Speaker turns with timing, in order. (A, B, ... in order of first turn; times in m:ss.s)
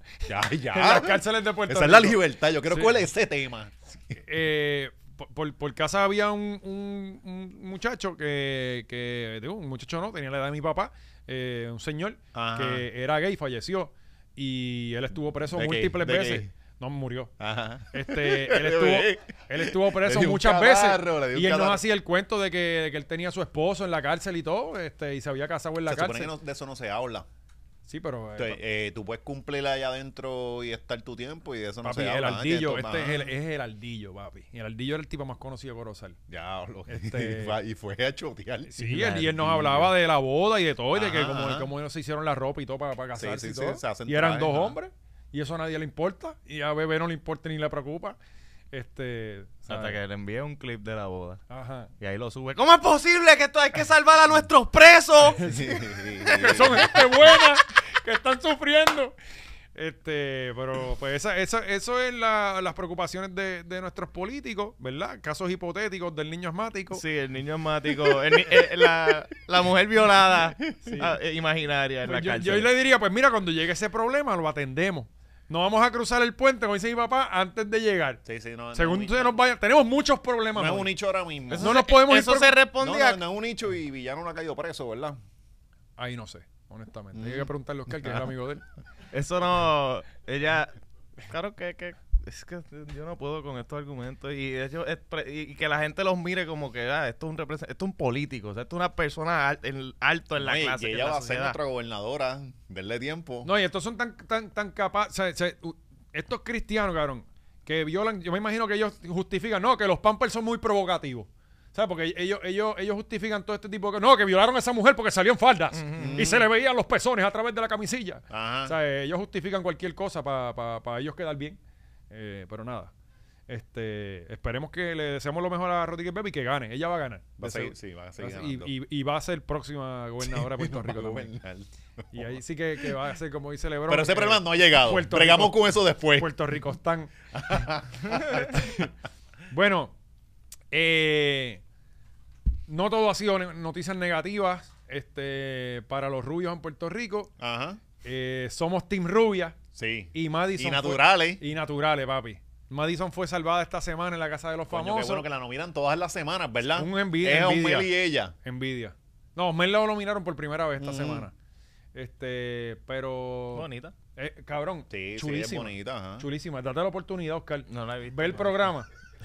0:00.3-0:04.2 A
0:00.7-0:03.0 B
0:04.2-0:17.3 B
0:12.3-0:12.8 A
0:15.5-0:16.5 A
0:17.4-0:21.8 A
0:17.9-0:26.3 B
0:25.9-0:27.3 A
0:27.9-0:28.6 B
0:28.4-0:33.3 A
0:31.8-0:36.2 B
0:36.3-0:39.9 A
0:36.9-0:37.6 B
0:38.7-0:48.2 B
0:40.9-0:41.7 A
0:43.2-0:44.8 A
0:48.7-0:50.0 B
0:49.7-0:51.4 C
0:51.5-0:51.9 B
0:52.0-0:55.4 C
0:55.4-0:59.2 B
0:55.4-0:56.9 A
0:56.2-0:57.1 C
0:59.7-1:07.0 B
1:06.9-1:12.7 C
1:10.8-1:11.2 B
1:12.0-1:18.2 B
1:18.2-1:19.4 A
1:18.7-1:20.9 B
1:20.6-1:21.8 A
1:21.5-1:23.2 C
1:21.6-1:22.6 B
1:22.8-1:25.2 A
1:26.0-1:28.6 B
1:27.2-1:27.5 A
1:29.1-1:41.6 C
1:40.4-1:43.5 A
1:43.4-2:01.6 B
1:55.7-1:56.2 C
1:56.0-1:56.5 A
1:58.3-1:58.8 A
2:02.1-2:02.9 B
2:03.5-2:11.3 B
2:07.4-2:08.7 A
2:10.2-2:12.4 A
2:12.1-2:18.9 B
2:13.9-2:16.5 A
2:17.3-2:18.5 A
2:19.5-2:20.0 B
2:20.7-2:21.6 B
2:22.7-2:27.3 B
2:27.4-2:27.8 A
2:28.0-2:29.6 B
2:29.8-2:31.4 A
2:30.1-2:35.3 B
2:34.7-2:38.4 A
2:36.7-2:37.9 B
2:38.4-2:41.3 B
2:40.8-2:41.3 A
2:42.0-2:48.9 B
2:43.5-2:43.9 C
2:44.9-2:46.3 A
2:47.7-2:48.7 C